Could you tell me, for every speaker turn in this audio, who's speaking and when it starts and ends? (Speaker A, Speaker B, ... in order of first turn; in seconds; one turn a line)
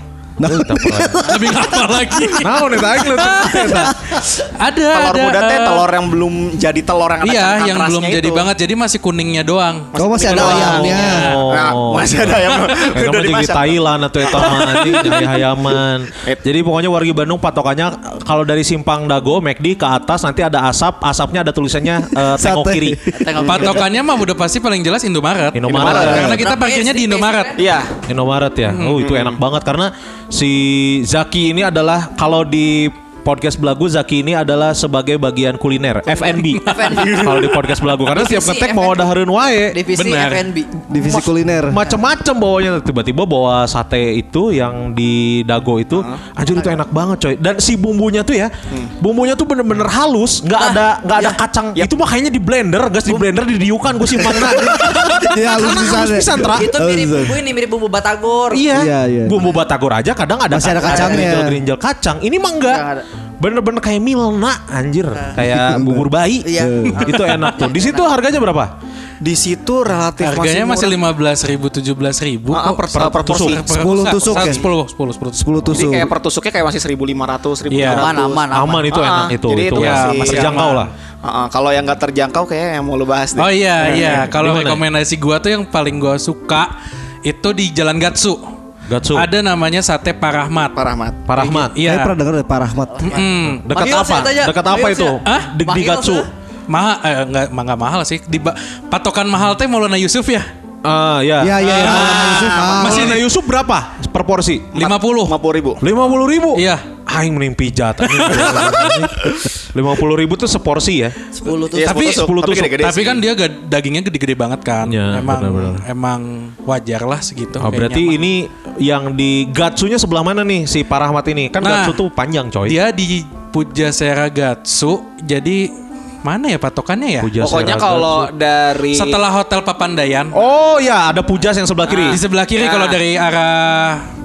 Speaker A: 0.4-2.3
Speaker B: 0.4-1.3
Speaker C: 1.2-5.9
Speaker B: 2.4-4.0
Speaker A: 3.5-3.9
Speaker D: 4.9-8.5
Speaker C: 7.2-11.4
Speaker D: 9.9-15.4
Speaker A: 10.0-11.3
Speaker B: 10.4-23.0
Speaker C: 14.8-15.2
Speaker A: 22.1-23.2
Speaker E: 23.1-23.8
Speaker C: 23.4-27.6
Speaker B: 25.5-26.4
Speaker D: 25.7-26.4
Speaker E: 25.8-27.8
Speaker A: 26.0-26.4
Speaker D: 27.6-27.9
Speaker B: 28.1-39.9
Speaker C: 28.7-29.0
Speaker D: 29.0-29.4
Speaker D: 36.0-37.7
Speaker E: 36.6-39.1
Speaker E: 39.7-40.7
Speaker C: 39.9-40.5
Speaker A: 40.9-41.8
Speaker B: 40.9-56.7
Speaker D: 45.9-46.2
Speaker E: 50.6-51.4
Speaker A: 54.2-57.4
Speaker E: 56.5-58.7
Speaker B: 58.5-62.8
Speaker A: 58.7-59.4
Speaker A: 60.5-61.6
Speaker E: 60.8-61.3
Speaker E: 62.6-63.0
Speaker B: 63.4-68.7
Speaker A: 65.4-67.1
Speaker E: 66.4-68.1
Speaker D: 69.2-71.0
Speaker C: 70.2-75.8
Speaker D: 72.5-73.7
Speaker B: 72.9-73.6
Speaker A: 73.7-74.6
Speaker A: 75.4-76.1
Speaker D: 75.7-80.6
Speaker C: 77.7-78.1
Speaker E: 77.8-79.1
Speaker B: 78.5-80.9
Speaker C: 79.7-80.9
Speaker D: 81.2-84.2
Speaker C: 83.4-86.7
Speaker B: 83.8-84.8
Speaker C: 87.2-88.4
Speaker B: 88.9-89.3
Speaker C: 89.1-90.8
Speaker D: 90.8-91.2
Speaker B: 91.3-91.8
Speaker C: 91.3-92.1
Speaker A: 91.8-93.2
Speaker E: 92.9-96.3
Speaker C: 93.0-93.7
Speaker B: 93.4-96.3
Speaker C: 95.2-95.5
Speaker C: 96.7-100.5
Speaker B: 100.8-104.8
Speaker A: 101.4-103.2
Speaker C: 101.6-103.2
Speaker D: 101.8-103.2
Speaker D: 104.7-105.8
Speaker C: 104.8-105.4
Speaker B: 105.8-111.2
Speaker C: 106.5-106.9
Speaker C: 108.0-109.5
Speaker E: 111.3-112.1
Speaker D: 111.7-113.2
Speaker C: 111.8-112.2
Speaker B: 111.9-112.7
Speaker C: 112.8-118.2
Speaker B: 114.8-115.8
Speaker B: 117.6-122.8
Speaker C: 121.6-122.0
Speaker C: 122.7-125.7
Speaker C: 126.2-127.3
Speaker B: 127.2-128.3
Speaker D: 127.4-129.2
Speaker C: 128.9-130.3
Speaker B: 130.3-132.2
Speaker D: 131.9-133.0
Speaker C: 132.0-134.0